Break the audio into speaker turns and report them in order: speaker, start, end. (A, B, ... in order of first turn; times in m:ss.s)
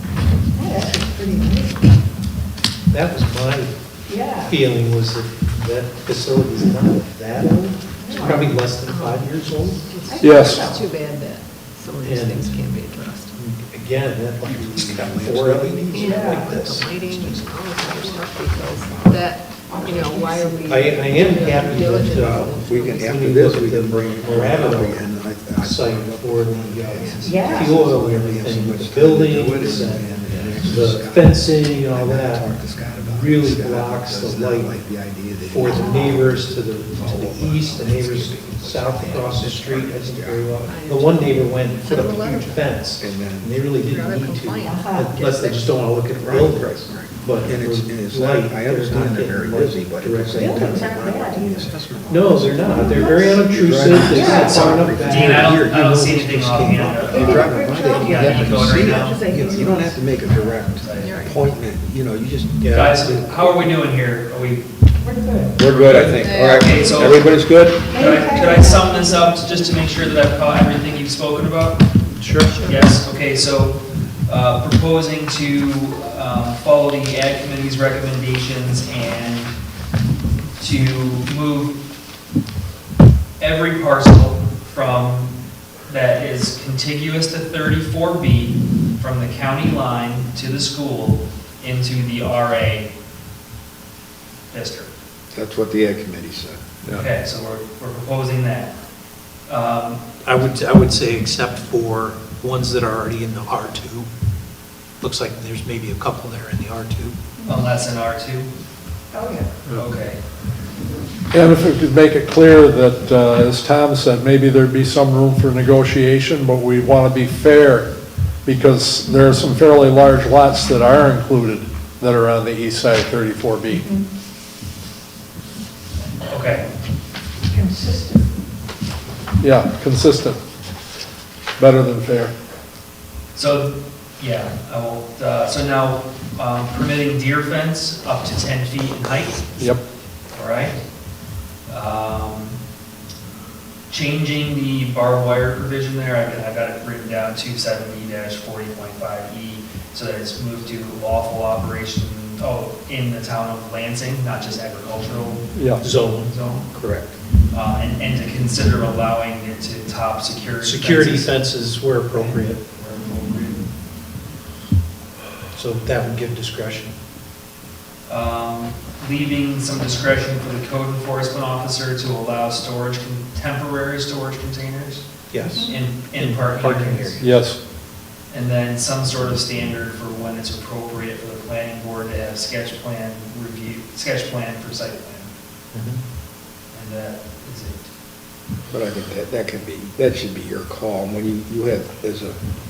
0:00.5-0:01.8 A
0:02.9-0:03.8 B
0:04.1-0:04.5 A
0:04.4-0:09.9 B
0:08.0-0:08.4 A
0:08.1-0:13.3 C
0:10.1-0:10.8 A
0:10.2-0:10.8 D
0:12.0-0:12.7 B
0:13.3-0:17.1 B
0:14.4-0:19.2 E
0:15.9-0:23.2 C
0:16.1-0:16.6 A
0:19.6-0:20.8 A
0:20.6-0:25.0 B
0:22.0-0:40.6 E
0:25.6-0:32.5 B
0:27.2-0:27.7 A
0:33.0-0:34.8 B
0:35.4-0:51.0 B
0:35.6-0:36.2 A
0:40.6-0:42.6 C
0:41.9-0:42.4 E
0:43.0-0:43.6 E
0:43.8-0:45.6 C
0:44.6-0:45.2 A
0:45.4-1:03.6 E
0:50.3-0:51.7 A
0:52.1-0:56.1 B
0:52.5-0:53.4 A
0:54.0-0:54.6 A
0:54.3-0:59.2 F
0:57.0-1:00.0 A
1:00.3-1:01.2 F
1:01.0-1:01.4 C
1:02.6-1:03.1 B
1:02.7-1:04.7 F
1:05.0-1:05.6 A
1:05.5-1:08.0 E
1:05.6-1:11.9 F
1:06.2-1:07.2 C
1:07.9-1:09.6 A
1:12.2-1:12.6 B
1:12.5-1:12.8 C
1:12.6-1:19.6 F
1:20.6-1:21.8 F
1:23.4-1:25.3 F
1:25.9-1:32.9 F
1:34.5-1:34.9 F
1:35.3-1:36.6 E
1:36.9-1:38.7 F
1:39.5-1:40.0 F
1:40.2-1:44.1 B
1:45.0-1:47.2 B
1:47.4-1:48.5 F
1:49.1-1:49.5 A
1:49.7-1:50.2 F
1:51.3-1:57.9 D
1:58.4-2:03.9 D
2:03.7-2:04.0 A
2:06.3-2:06.7 F
2:07.5-2:08.2 A
2:09.4-2:10.4 D
2:11.6-2:12.3 D
2:13.3-2:19.6 F
2:20.3-2:20.8 F
2:21.7-2:22.6 F
2:23.9-2:36.7 F
2:35.5-2:35.8 D
2:35.8-2:37.1 B
2:37.5-2:41.3 F
2:40.6-2:42.6 B
2:42.1-2:43.7 F
2:45.5-2:46.9 B
2:48.1-2:57.2 F
2:55.3-2:57.3 B
2:57.2-2:57.6 D
2:58.3-3:05.3 F
3:05.7-3:06.0 B
3:06.7-3:07.9 F
3:08.7-3:12.4 E